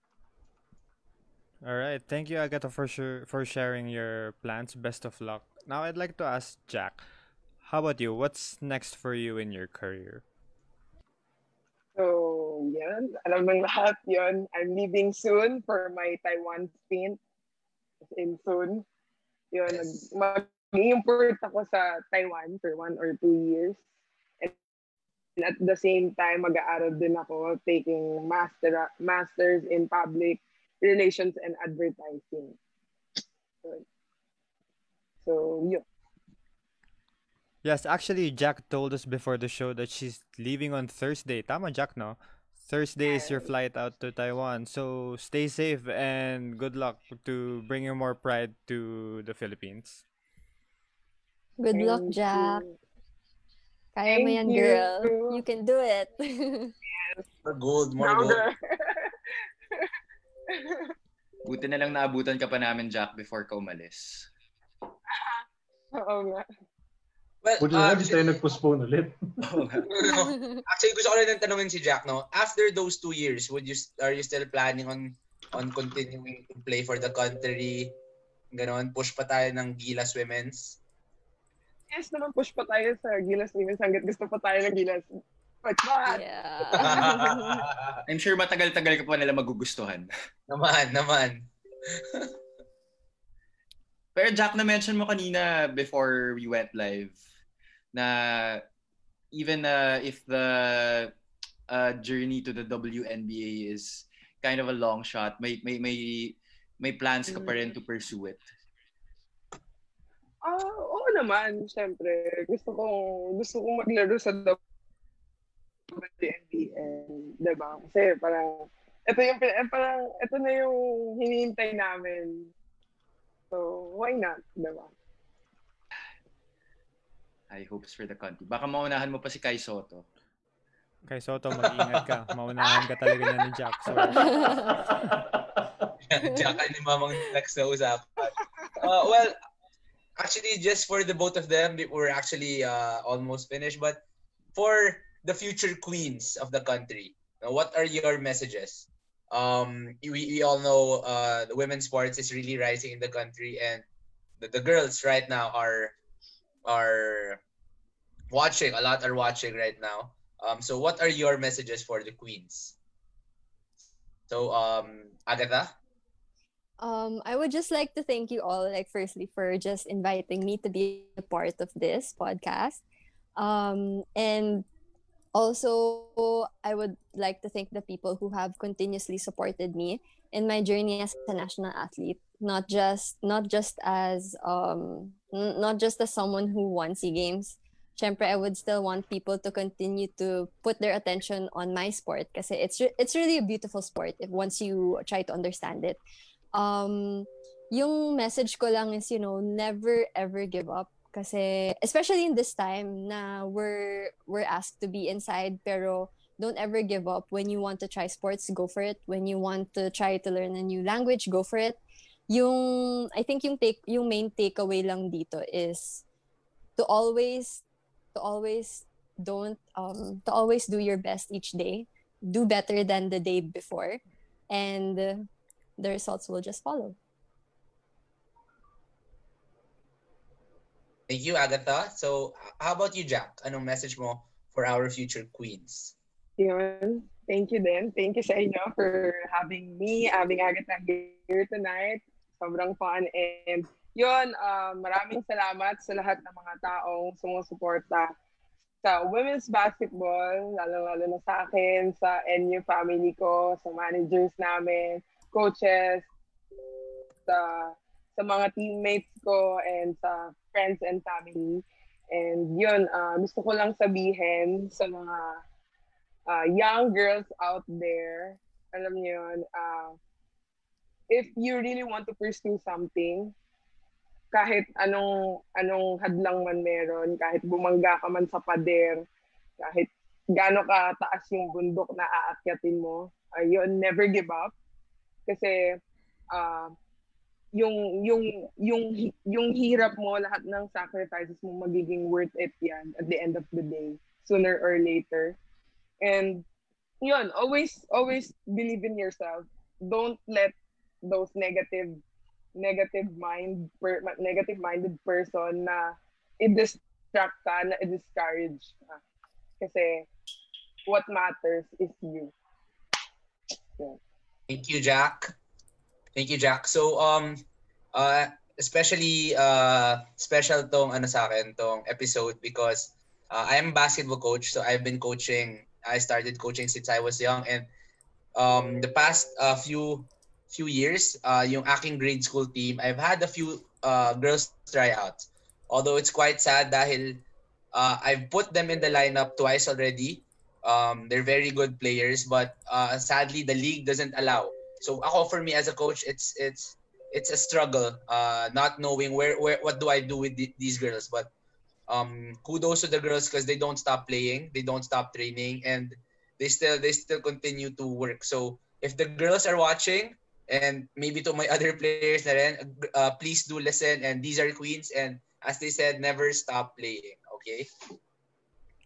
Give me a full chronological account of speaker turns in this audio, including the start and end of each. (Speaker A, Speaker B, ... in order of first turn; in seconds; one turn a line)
Speaker A: 1.6-7.0
Speaker A: 7.6-10.2
Speaker B: 12.0-17.2
Speaker B: 18.1-18.9
Speaker B: 19.5-23.8
Speaker C: 19.7-20.0
Speaker B: 25.4-32.6
Speaker B: 35.2-35.8
Speaker A: 37.6-50.0
Speaker B: 43.0-43.5
Speaker D: 51.6-52.6
Speaker B: 51.7-52.8
Speaker D: 54.0-56.7
Speaker B: 54.1-55.4
Speaker B: 56.9-57.2
Speaker C: 57.5-58.4
Speaker B: 58.0-59.9
Speaker B: 60.5-60.9
Speaker E: 61.4-64.3
Speaker B: 65.1-66.5
Speaker C: 67.4-68.4
Speaker F: 67.6-69.7
Speaker E: 69.4-69.9
Speaker C: 69.9-78.0
Speaker C: 78.5-80.8
Speaker B: 81.9-87.1
Speaker D: 86.1-87.6
Speaker C: 86.8-88.0
Speaker E: 88.1-90.1
Speaker C: 90.5-92.3
Speaker E: 94.2-97.2
Speaker E: 97.9-98.7
Speaker E: 99.3-101.1
Speaker E: 101.7-108.4
Speaker B: 107.3-107.6
Speaker B: 110.4-114.6
Speaker B: 115.9-122.5
Speaker B: 123.5-124.9
Speaker E: 127.5-130.1
Speaker A: 131.1-135.1
Speaker D: 134.4-134.7
Speaker F: 134.9-135.9
Speaker C: 136.0-139.4
Speaker C: 140.2-144.0
Speaker C: 144.6-153.9
Speaker C: 154.4-155.9
Speaker C: 156.7-157.4
Speaker C: 158.3-162.8
Speaker C: 164.3-165.8
Speaker D: 166.8-172.8
Speaker D: 173.4-174.7
Speaker D: 175.3-196.0
Speaker D: 196.5-216.0
Speaker D: 216.8-225.3
Speaker D: 225.8-227.0
Speaker C: 231.1-235.9
Speaker B: 236.4-248.1
Speaker B: 248.8-256.1
Speaker B: 257.3-265.4
Speaker B: 266.3-270.0
Speaker B: 271.1-273.3
Speaker B: 274.3-279.0
Speaker B: 279.6-284.5
Speaker B: 285.3-285.8
Speaker B: 286.3-286.8
Speaker B: 287.6-295.4
Speaker B: 296.0-296.5
Speaker B: 297.0-302.0
Speaker B: 302.6-309.0
Speaker B: 309.6-310.1
Speaker B: 310.9-312.3
Speaker C: 314.5-315.4
Speaker C: 316.1-317.4
Speaker C: 317.9-327.7
Speaker C: 328.4-337.2
Speaker C: 337.7-351.3
Speaker C: 351.9-367.7